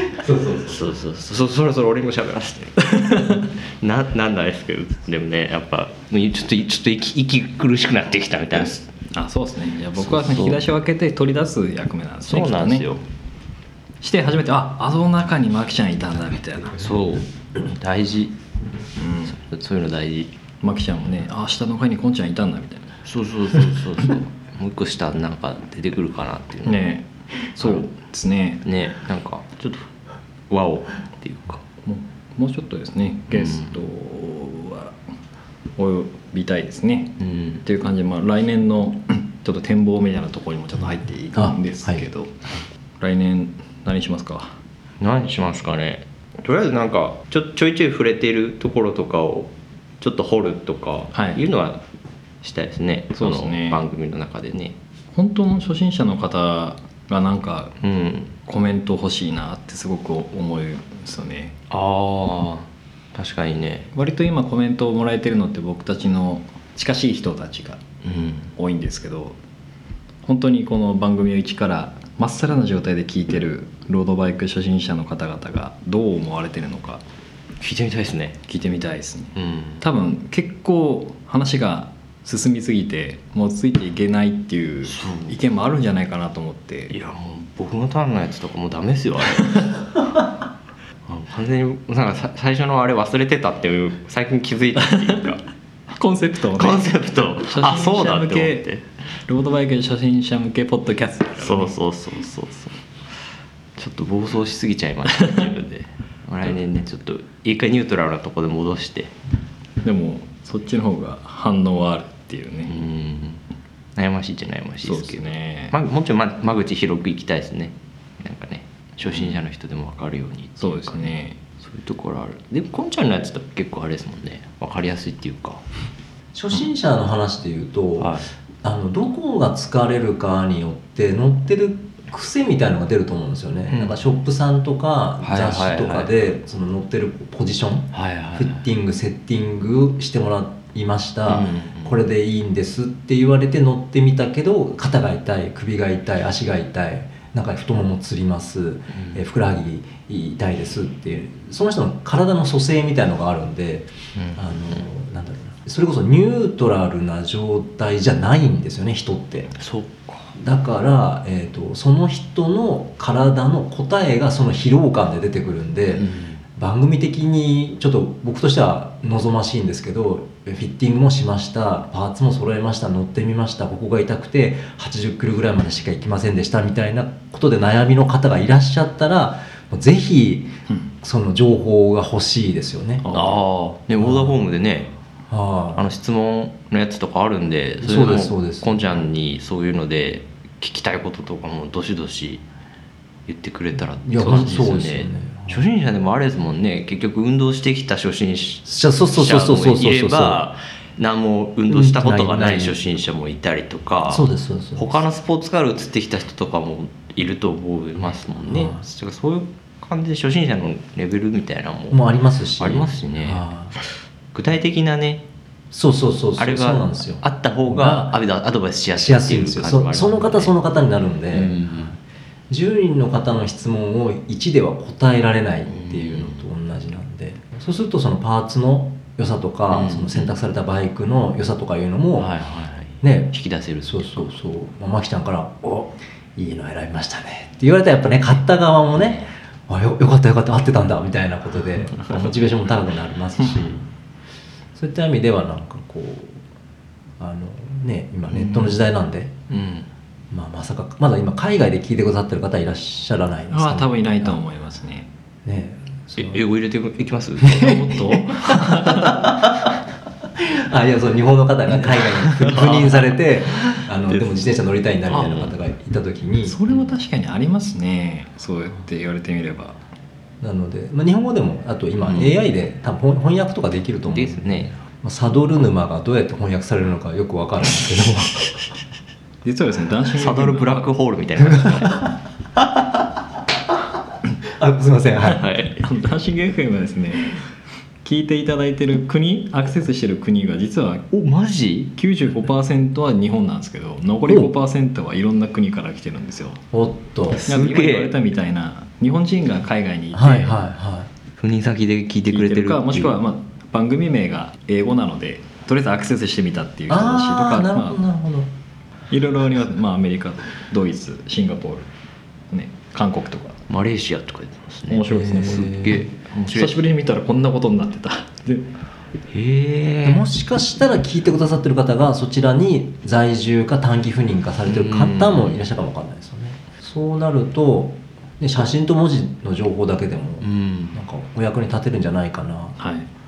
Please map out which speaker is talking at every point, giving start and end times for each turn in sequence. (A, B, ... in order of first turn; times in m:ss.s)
0:00.1-0:00.8 A
0:00.7-0:08.8 B
0:02.9-0:03.4 C
0:09.1-0:12.9 C
0:10.0-0:10.6 B
0:12.2-0:13.0 B
0:14.0-0:16.9 C
0:16.8-0:18.4 B
0:19.0-0:19.4 C
0:19.3-0:20.3 B
0:20.6-0:22.9 C
0:23.0-0:26.8 B
0:26.6-0:28.6 C
0:27.6-0:27.9 B
0:28.6-0:29.9 B
0:30.5-0:31.6 B
0:31.8-0:35.0 C
0:33.3-0:33.7 B
0:35.8-0:42.3 C
0:37.2-0:37.6 B
0:41.3-0:42.0 A
0:43.0-0:44.5 C
0:45.0-0:51.8 B
0:51.1-0:51.4 C
0:52.4-0:54.8 B
0:53.1-0:53.8 C
0:55.1-0:57.8 C
0:57.8-0:58.3 B
0:58.4-1:01.6 C
1:01.7-1:03.9 B
1:03.9-1:07.8 C
1:08.0-1:08.5 B
1:08.6-1:09.4 C
1:10.2-1:17.0 C
1:17.6-1:18.4 B
1:18.5-1:26.9 C
1:19.3-1:19.8 B
1:24.9-1:25.3 B
1:26.9-1:29.6 B
1:31.0-1:35.4 B
1:34.9-1:35.2 C
1:35.9-1:38.7 C
1:36.5-1:38.8 B
1:39.3-1:41.7 C
1:41.4-1:42.8 B
1:43.8-1:49.1 B
1:45.2-1:45.4 C
1:49.8-1:52.8 C
1:52.7-1:53.4 B
1:54.0-2:05.6 B
1:54.8-1:55.7 C
2:00.6-2:01.4 C
2:06.3-2:39.5 A
2:08.0-2:08.2 B
2:13.7-2:14.0 B
2:15.2-2:16.1 B
2:17.9-2:18.6 B
2:21.3-2:22.0 B
2:28.9-2:29.2 B
2:34.2-2:34.4 B
2:39.5-2:40.3 B
2:40.4-3:03.0 A
2:45.9-2:46.4 B
3:03.0-3:03.4 C
3:03.1-3:04.9 B
3:04.0-3:04.4 A
3:05.3-3:05.8 A
3:05.7-3:12.4 B
3:07.8-3:08.8 A
3:13.3-3:32.0 B
3:14.0-3:15.6 A
3:18.6-3:20.4 A
3:21.7-3:22.8 A
3:24.1-3:24.9 A
3:28.5-3:28.8 A
3:31.9-3:33.7 A
3:32.6-3:33.4 B
3:34.3-3:35.2 B
3:35.7-3:38.2 A
3:36.4-3:40.5 B
3:39.0-3:41.6 A
3:41.3-3:42.0 B
3:42.5-3:52.3 A
3:45.7-3:46.5 B
3:49.7-3:50.3 B
3:52.2-3:54.3 B
3:53.0-3:53.3 A
3:53.8-4:03.8 A
3:59.0-3:59.3 B
4:04.7-4:06.4 A
4:07.2-4:09.4 A
4:09.5-4:09.9 B
4:10.3-4:14.4 A
4:13.5-4:15.1 C
4:15.4-4:16.4 A
4:16.2-4:17.8 B
4:17.4-4:19.7 A
4:17.5-4:19.2 C
4:20.4-4:26.6 A
4:22.0-4:24.4 B
4:25.1-4:25.5 B
4:26.4-4:29.8 C
4:30.4-4:38.5 A
4:32.0-4:32.3 B
4:34.1-4:34.8 B
4:39.4-4:40.9 C
4:40.2-4:42.1 B
4:41.4-4:43.0 A
4:44.4-4:45.4 A
4:45.2-4:45.8 B
4:45.8-4:47.4 C
4:48.0-4:51.1 C
4:51.1-4:51.9 B
4:52.0-4:56.6 C
4:54.3-4:54.5 A
4:56.7-4:57.4 A
4:57.3-4:58.1 B
4:57.4-5:00.6 C
5:00.1-5:01.1 A
5:01.4-5:03.2 B
5:02.3-5:08.0 C
5:06.9-5:08.5 A
5:09.1-5:11.9 C
5:12.5-5:13.6 C
5:13.7-5:16.8 B
5:14.9-5:18.7 C
5:15.1-5:16.0 A
5:19.3-5:20.2 B
5:20.0-5:32.8 A
5:24.7-5:25.6 B
5:30.4-5:31.0 B
5:32.8-5:33.1 C